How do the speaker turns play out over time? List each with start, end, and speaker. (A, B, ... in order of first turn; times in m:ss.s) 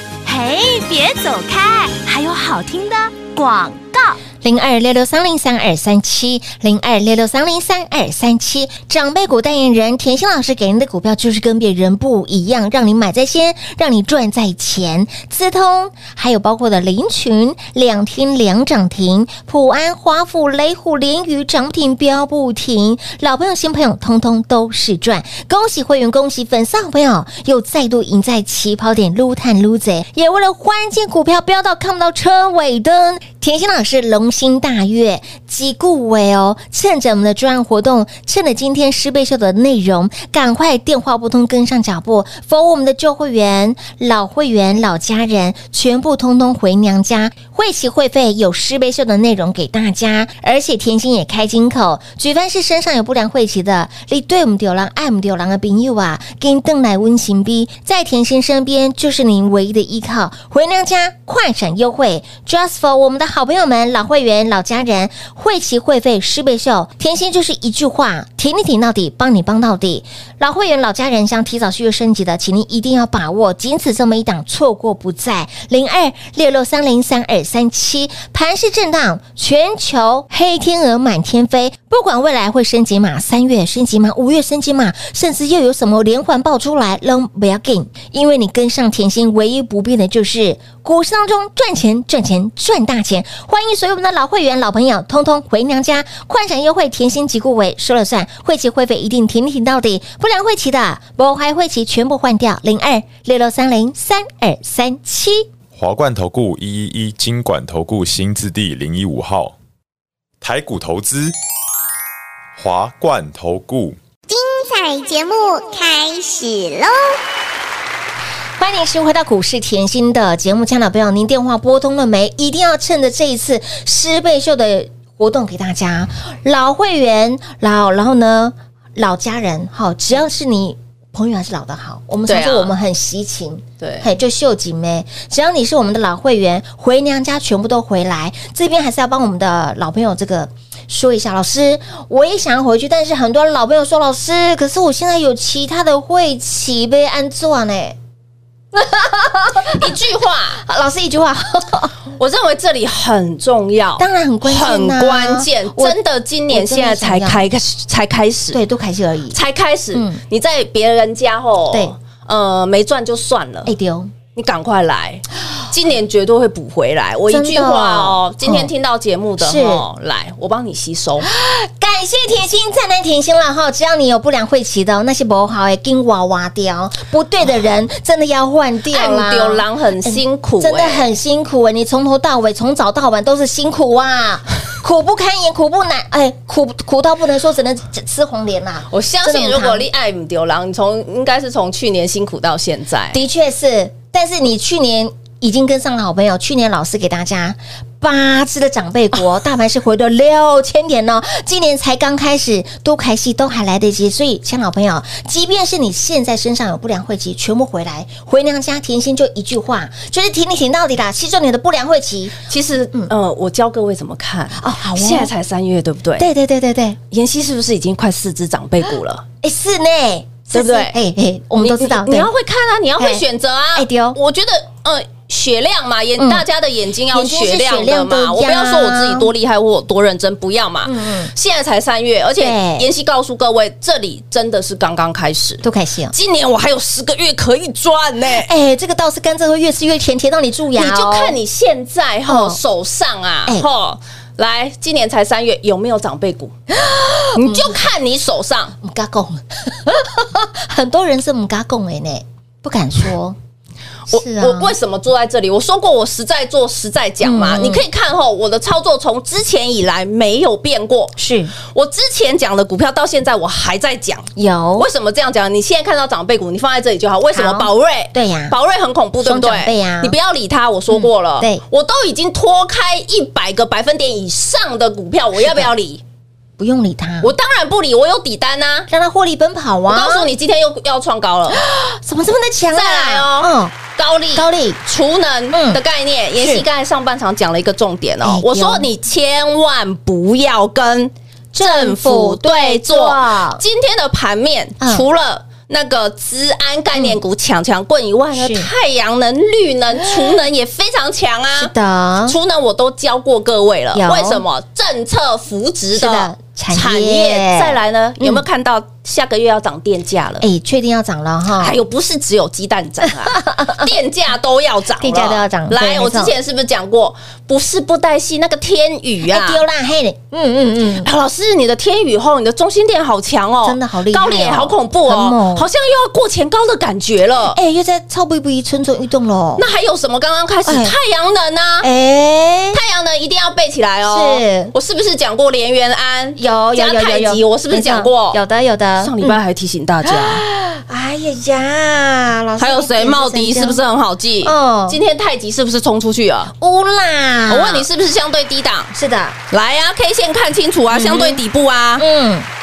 0:00.2-0:04.2 A
0:04.4-1:45.5 B
1:45.7-1:49.6 C
1:50.4-1:51.3 C
1:52.6-1:54.0 C
1:54.3-1:57.2 D
1:58.6-2:28.0 B
2:12.3-2:12.7 E
2:13.8-2:14.1 E
2:28.7-2:30.0 B
2:29.7-2:30.6 E
2:30.6-2:32.0 B
2:32.1-2:38.6 E
2:34.0-2:36.0 B
2:36.5-2:37.5 B
2:38.5-2:39.4 B
2:39.3-2:43.7 E
2:39.9-2:40.2 B
2:43.6-2:44.1 B
2:44.3-2:51.3 E
2:47.3-2:48.7 B
2:49.4-2:49.8 B
2:51.2-3:09.8 B
2:58.9-3:01.1 E
3:08.9-3:13.2 E
3:13.1-3:32.4 B
3:32.5-3:36.3 E
3:34.6-3:35.3 B
3:36.2-3:37.0 B
3:37.1-3:39.2 E
3:39.4-3:42.3 B
3:40.5-3:41.0 E
3:41.6-3:58.5 E
3:43.0-3:44.2 B
3:46.2-3:46.4 B
3:47.1-3:49.3 B
3:50.8-3:51.3 B
3:52.4-3:52.9 B
3:55.6-3:56.1 B
3:58.3-4:01.4 B
4:00.8-4:06.5 E
4:02.3-4:02.6 B
4:06.7-4:07.8 B
4:07.3-4:08.8 E
4:08.8-4:13.4 B
4:14.1-4:36.0 E
4:14.1-4:14.7 B
4:17.2-4:17.8 B
4:21.2-4:21.5 B
4:24.4-4:24.9 B
4:27.3-4:28.5 B
4:29.2-4:30.1 B
4:30.9-4:31.6 B
4:35.4-4:35.7 B
4:36.6-4:37.3 B
4:37.2-4:38.9 E
4:38.9-4:40.3 B
4:39.9-4:41.6 E
4:41.5-4:43.8 B
4:42.7-5:01.7 E
4:44.3-4:44.8 B
4:45.5-4:45.8 B
4:46.4-4:46.6 B
4:48.2-4:48.9 B
4:51.5-4:53.6 B
4:54.8-4:55.0 B
4:56.9-4:57.2 B
4:58.3-4:58.7 B
5:01.6-5:02.4 B
5:02.2-5:10.4 E
5:03.9-5:04.4 B
5:05.9-5:08.4 B
5:10.4-5:11.8 B
5:11.6-5:19.6 E
5:13.2-5:13.9 B
5:15.0-5:16.3 B
5:19.2-5:21.1 B
5:21.0-5:27.6 E
5:23.6-5:25.7 B
5:27.5-5:29.6 B
5:29.6-5:31.9 E
5:30.6-5:30.9 B
5:31.8-5:32.8 B
5:32.7-5:38.4 E
5:34.0-5:34.7 B
5:36.4-5:39.4 B
5:39.0-5:40.4 E
5:40.0-5:43.8 B
5:42.6-5:46.5 E
5:44.4-5:45.0 B
5:46.6-5:47.9 B
5:47.5-5:48.9 E
5:48.9-5:49.4 B
5:49.5-5:52.0 E
5:50.9-5:51.4 B
5:52.0-5:52.5 B